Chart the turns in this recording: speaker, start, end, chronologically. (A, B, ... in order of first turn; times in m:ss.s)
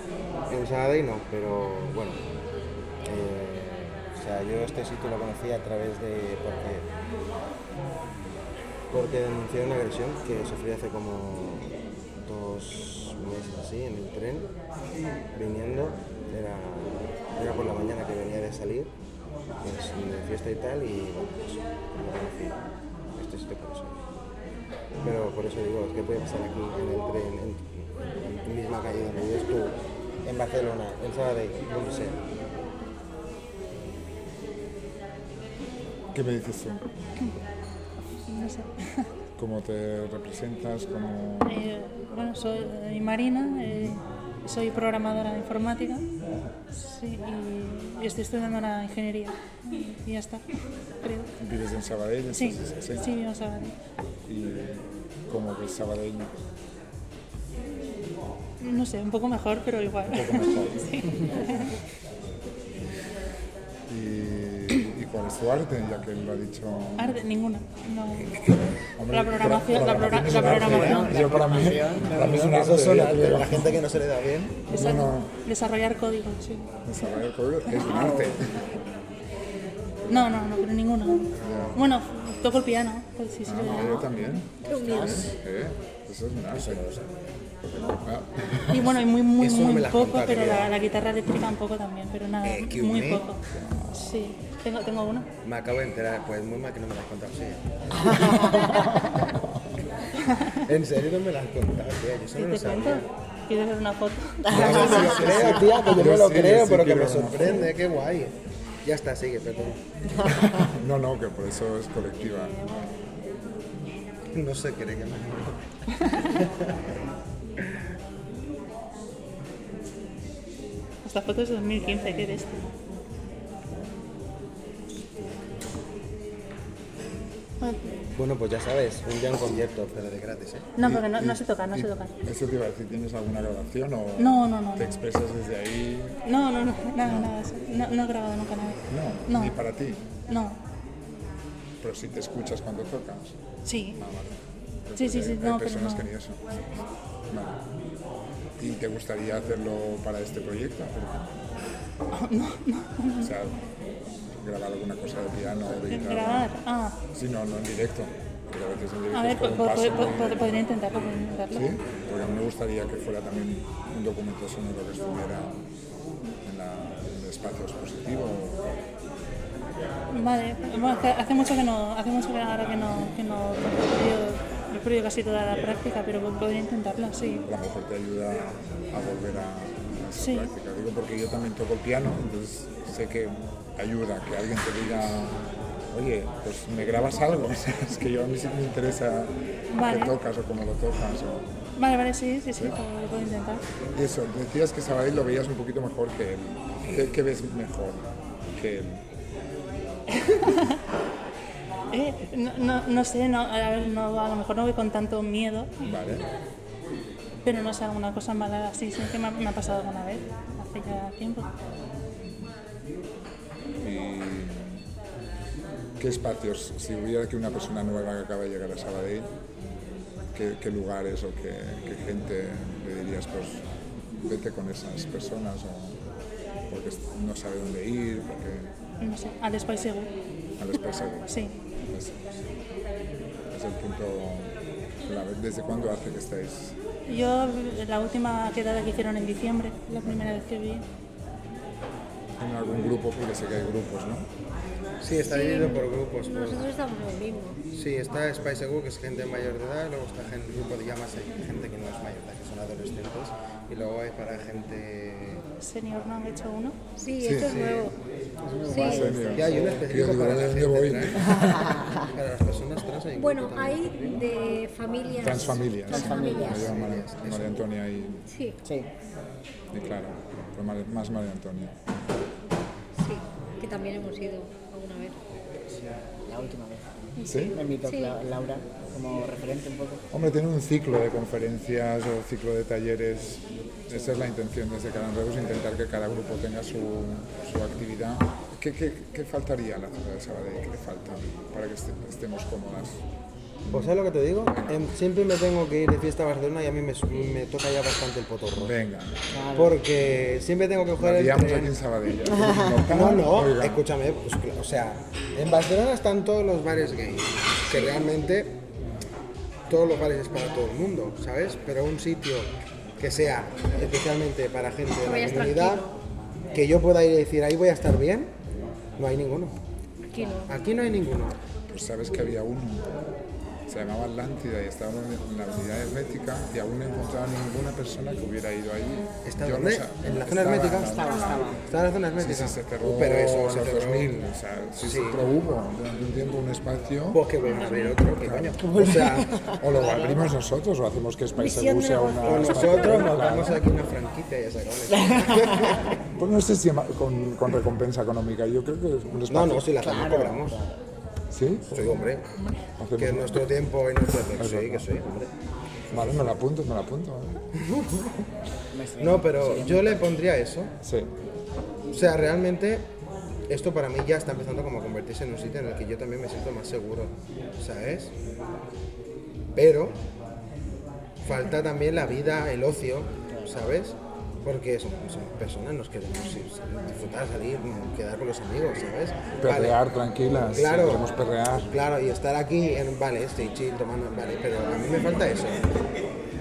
0:00.5-0:02.2 A
0:03.0-0:06.9 A
0:08.9-0:14.5 A
0:15.3-0:18.9 A
0:19.6-0:22.6 A
0:23.1-0:24.0 A
0:25.0-0:32.2 A
0:36.1-0:36.9 B
0:38.3-0:39.1 C
0:39.4-0:41.6 B
0:41.4-0:46.0 C
0:46.7-0:50.4 C
0:51.0-0:51.3 C
0:51.4-0:53.1 B
0:52.3-0:53.7 C
0:54.2-0:56.4 B
0:58.6-1:01.7 C
1:00.1-1:01.4 B
1:03.9-1:07.2 B
1:07.0-1:08.4 C
1:08.4-1:14.0 B
1:09.1-1:11.2 C
1:10.2-1:12.6 D
1:12.2-1:14.6 A
1:14.7-1:16.7 C
1:14.7-1:15.3 B
1:16.8-1:18.7 B
1:17.8-1:18.5 D
1:20.0-1:20.3 B
1:20.1-1:24.1 C
1:21.3-1:21.8 A
1:23.4-1:27.0 B
1:24.6-1:25.3 D
1:24.6-1:25.3 E
1:24.9-1:25.3 A
1:26.5-1:27.0 A
1:27.7-1:29.0 B
1:28.7-1:33.4 C
1:29.4-1:30.8 A
1:32.4-1:33.2 A
1:33.5-1:34.0 B
1:34.0-1:35.3 C
1:35.4-1:38.5 A
1:38.1-1:38.6 D
1:38.4-1:39.6 B
1:40.5-1:43.1 A
1:42.4-1:44.8 C
1:44.4-1:45.3 D
1:44.5-1:49.8 A
1:44.5-1:47.7 B
1:50.2-1:52.8 B
1:54.3-1:56.7 A
2:01.0-2:02.6 C
2:07.6-2:08.1 C
2:08.1-2:10.7 A
2:10.8-2:12.1 C
2:10.8-2:16.2 B
2:14.2-2:14.9 C
2:16.2-2:19.6 C
2:17.0-2:17.3 B
2:18.9-2:20.0 B
2:20.3-2:20.6 C
2:21.8-2:23.4 B
2:23.6-2:24.0 C
2:24.0-2:27.6 B
2:25.0-2:26.1 C
2:28.6-2:31.3 B
2:32.1-2:33.3 C
2:33.2-2:33.6 B
2:34.3-2:36.5 B
2:35.9-2:37.0 C
2:37.1-2:40.6 B
2:39.1-2:41.7 C
2:41.5-2:45.6 B
2:46.4-2:48.6 B
2:50.1-2:57.4 C
2:57.4-3:11.6 B
3:00.2-3:00.5 C
3:09.7-3:10.1 C
3:11.8-3:13.6 C
3:13.9-3:19.0 B
3:20.1-3:20.8 C
3:21.9-3:25.7 C
3:25.8-3:26.2 B
3:27.4-3:31.5 C
3:33.8-3:34.9 B
3:36.0-3:39.3 B
3:40.3-3:43.6 B
3:44.2-3:46.0 B
3:46.7-3:48.7 B
3:49.0-3:50.1 C
3:50.6-3:51.3 B
3:51.3-3:51.5 C
3:51.8-3:52.5 B
3:53.5-3:54.5 B
3:55.0-3:56.8 B
3:57.0-4:00.8 C
4:02.4-4:04.3 B
4:05.0-4:06.7 A
4:05.3-4:07.6 E
4:07.7-4:15.4 A
4:15.6-4:16.8 C
4:17.0-4:17.9 E
4:17.2-4:17.6 B
4:17.4-4:17.9 A
4:18.4-4:19.8 D
4:18.6-4:19.1 E
4:18.8-4:21.6 B
4:19.2-4:24.2 A
4:21.2-4:22.1 D
4:23.2-4:26.7 E
4:25.2-4:28.3 B
4:25.9-4:26.7 D
4:26.4-4:27.6 A
4:28.3-4:28.6 E
4:29.7-4:31.7 B
4:32.9-4:35.2 E
4:36.2-4:40.0 D
4:37.2-4:38.2 E
4:37.3-4:37.6 B
4:40.1-4:53.0 B
4:43.9-4:44.2 D
4:53.7-4:58.7 A
4:54.5-4:54.8 B
4:58.6-4:59.2 B
4:59.3-4:59.8 D
4:59.5-5:01.8 A
5:01.0-5:03.8 B
5:02.2-5:02.9 D
5:02.8-5:08.6 A
5:09.7-5:15.8 A
5:15.0-5:15.9 E
5:16.5-5:18.3 A
5:19.0-5:19.6 A
5:20.1-5:20.5 E
5:20.4-5:21.4 A
5:21.7-5:22.9 B
5:23.7-5:31.4 B
5:29.2-5:34.1 A
5:30.8-5:31.6 D
5:31.1-5:31.4 E
5:32.2-5:37.2 B
5:34.8-5:35.2 A
5:37.1-5:39.3 A
5:37.4-5:38.0 C
5:38.2-5:38.6 B
5:38.6-5:40.3 D
5:39.6-5:43.6 B
5:41.4-5:43.2 E
5:42.2-5:46.0 A
5:45.0-5:45.8 D
5:46.0-5:49.7 B
5:49.3-5:50.6 A
5:49.8-5:50.8 D
5:51.3-5:51.9 B
5:51.7-5:52.4 A
5:52.7-5:53.5 B
5:53.0-5:55.3 A
5:54.4-5:55.0 B
5:55.9-5:57.4 B
5:57.5-5:58.2 A
5:58.7-6:00.1 D
5:59.0-6:00.7 A
6:00.8-6:01.1 B
6:01.9-6:02.9 A
6:03.5-6:08.1 A
6:09.5-6:10.0 A
6:11.2-6:19.8 A
6:19.4-6:21.7 B
6:20.5-6:21.1 A
6:21.6-6:25.7 A